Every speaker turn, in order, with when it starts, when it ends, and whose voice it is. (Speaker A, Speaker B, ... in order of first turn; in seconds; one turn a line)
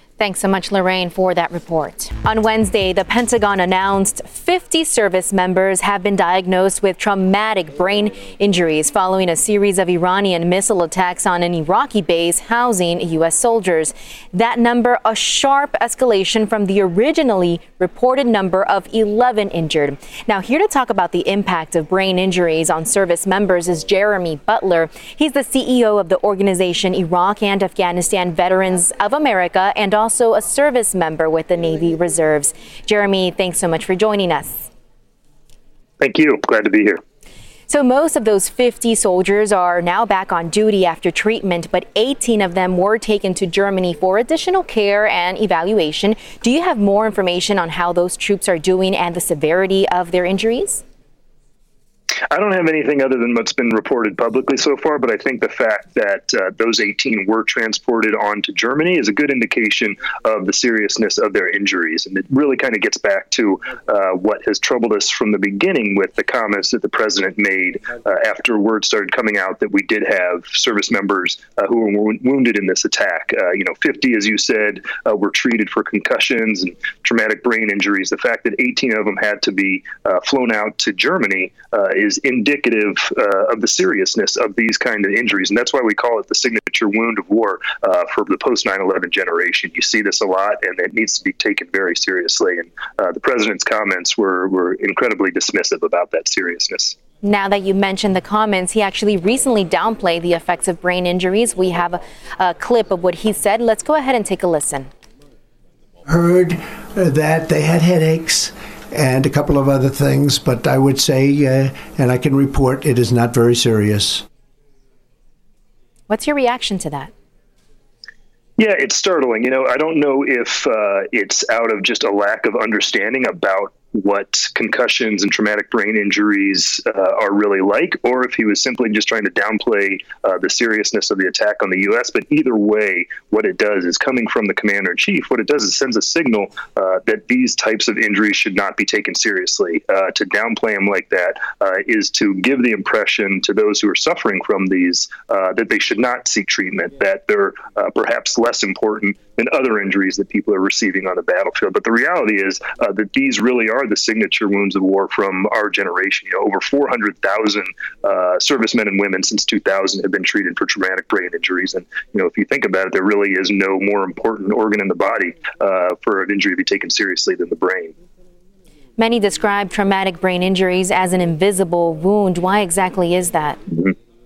Speaker A: 0.2-34.7
Speaker B: 36.0-37.0
Speaker A: 37.7-50.8
Speaker B: 52.3-97.0
Speaker A: 97.2-104.9
Speaker C: 106.1-114.2
Speaker A: 116.1-117.1
Speaker B: 118.6-167.9
Speaker A: 169.0-173.6